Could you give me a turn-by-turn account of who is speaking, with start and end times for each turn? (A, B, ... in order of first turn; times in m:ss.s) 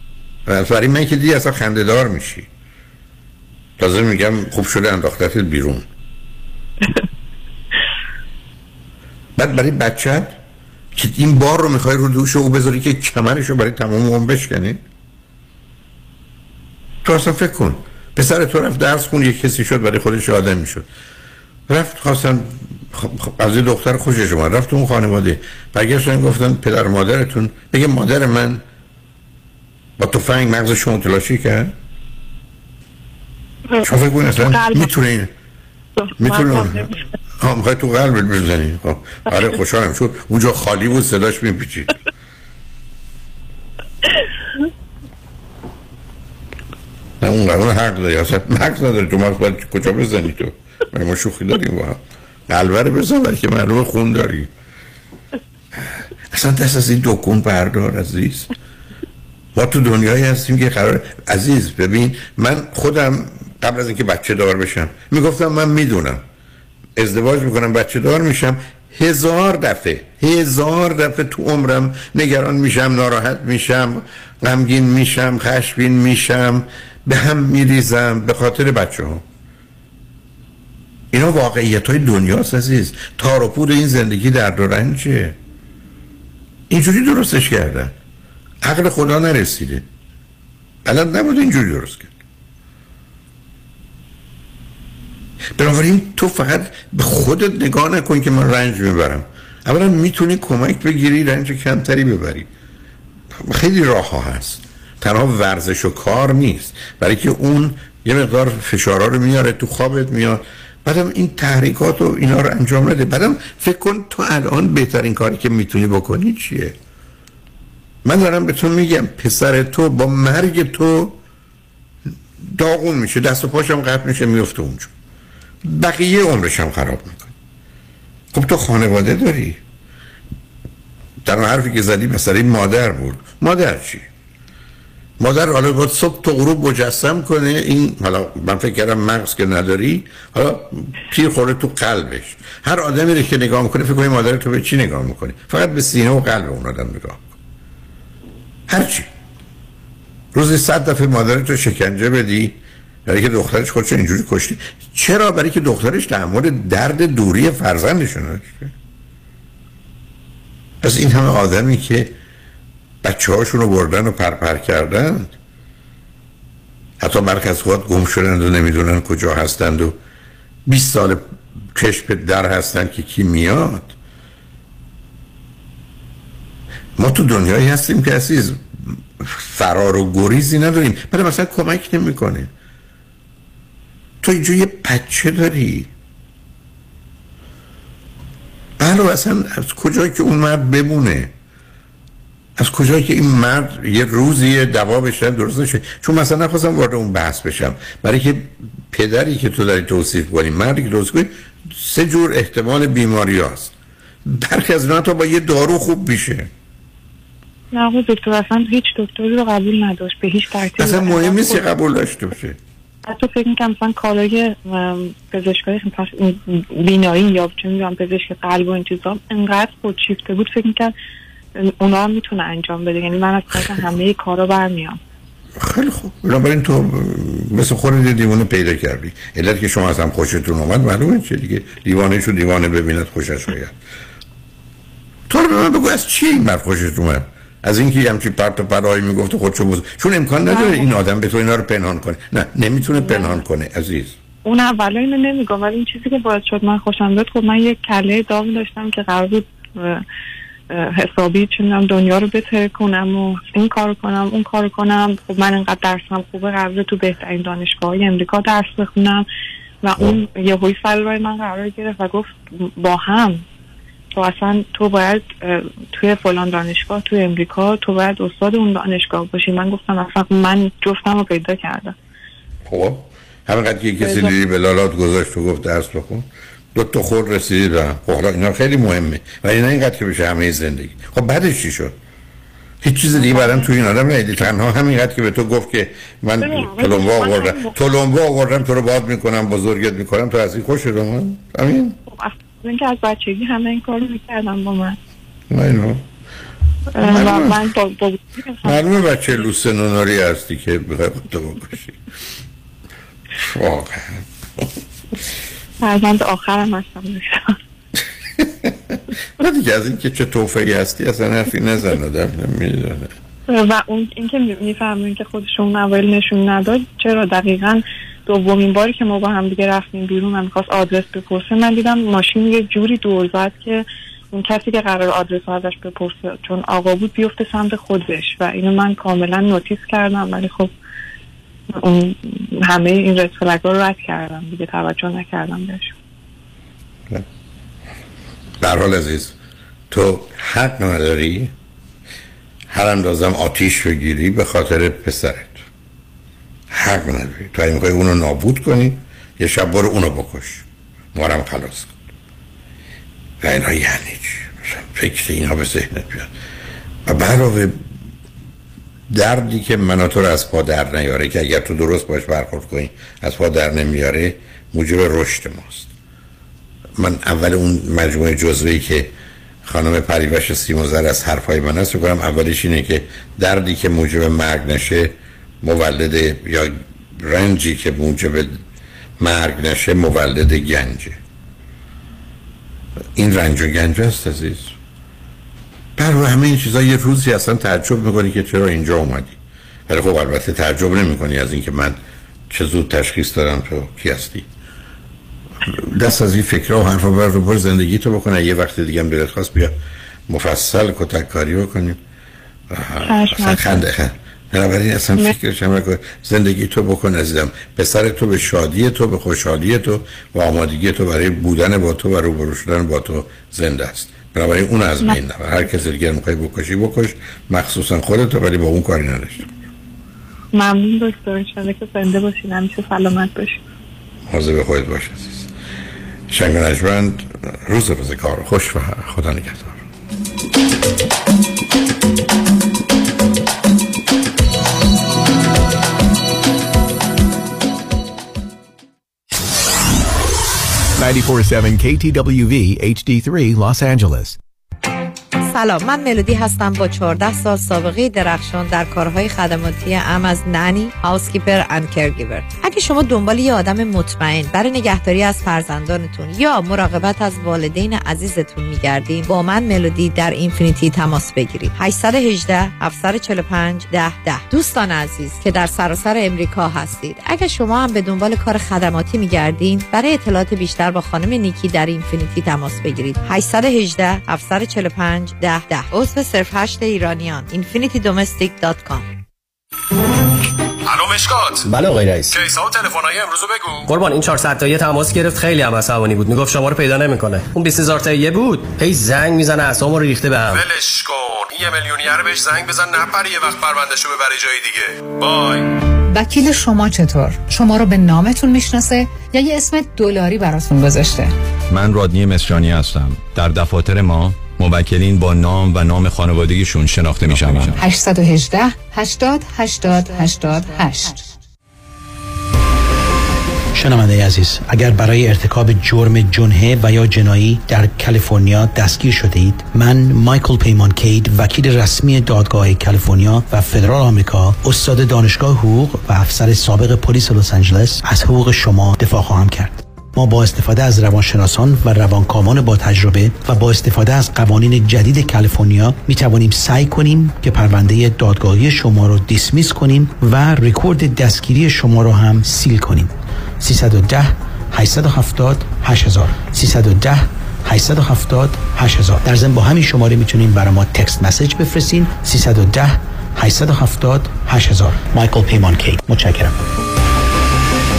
0:00.5-0:02.5 A
0:03.8-0:05.9 A
0:09.4-0:10.4 A
0:11.0-0:14.8 A
0:17.0-0:20.9 A
0:21.7-0:28.6 A
0:30.0-0:31.7 A
0:33.8-0:35.3 A
0:34.4-0:34.9 B
0:36.0-0:37.0 B
0:36.2-0:36.9 A
0:37.4-0:42.0 A
0:47.2-0:54.5 A
0:56.3-0:58.5 A
0:59.6-1:06.2 A
1:07.0-1:19.2 A
1:21.1-1:25.4 A
1:26.7-1:27.9 A
1:28.6-1:29.8 A
1:30.8-1:32.2 A
1:35.6-1:42.5 A
1:43.4-1:56.8 A
1:58.0-2:01.2 A
2:02.4-2:04.9 A
2:05.6-2:07.3 A
2:08.3-2:09.6 A
2:11.2-2:14.1 A
2:15.2-2:27.4 A
2:28.7-2:29.1 A
2:30.3-2:38.7 A
2:40.8-2:42.1 A
2:43.0-2:45.3 A
2:47.0-2:50.0 A
2:50.7-2:51.2 A
2:51.8-2:53.9 A
2:57.0-3:02.5 A
3:04.2-3:05.9 A
3:08.8-3:11.3 A
3:12.6-3:23.7 A
3:24.2-3:26.5 A
3:27.7-3:31.6 B
3:30.7-3:32.6 A
3:33.1-3:40.9 B
3:41.6-3:45.0 B
3:45.6-3:53.8 A
3:55.3-4:04.2 A
4:00.5-4:00.9 B
4:03.0-4:03.4 B
4:04.4-4:10.0 B
4:10.7-4:19.3 B
4:19.8-4:23.4 B
4:24.2-4:32.0 B
4:32.7-4:42.0 A
4:34.0-4:34.3 B
4:42.8-4:52.0 A
4:43.2-4:43.7 B
4:46.4-4:47.8 B
4:52.1-4:55.0 B
4:55.5-4:56.0 A
4:57.0-4:58.8 B
4:57.0-4:57.7 A
4:58.6-5:02.0 A
5:03.4-5:04.6 A
5:05.8-5:07.6 B
5:08.4-5:13.1 A
5:13.5-5:30.7 B
5:31.7-5:36.0 B
5:38.6-5:39.3 A
5:39.9-5:41.5 A
5:42.7-5:45.6 A
5:46.7-5:52.0 A
5:53.4-5:56.3 A
5:57.0-5:57.8 A
5:59.1-6:05.9 A
6:07.0-6:09.1 A
6:09.6-6:18.6 A
6:19.2-6:21.2 A
6:23.2-6:24.8 A
6:26.0-6:32.0 A
6:32.5-6:34.5 A
6:35.6-6:39.8 A
6:40.3-6:42.0 A
6:42.7-6:59.5 A
6:43.1-6:43.8 B
7:00.5-7:03.6 B
7:04.3-7:05.5 A
7:06.3-7:09.8 A
7:21.0-7:24.4 C
7:25.5-7:59.1 D
8:00.9-8:01.7 E
8:01.7-8:02.2 F
8:02.3-8:03.9 E
8:03.9-8:10.6 F
8:10.5-8:15.7 E
8:16.1-8:21.3 G
8:21.7-8:27.8 H
8:27.8-8:31.2 G
8:33.7-9:16.6 I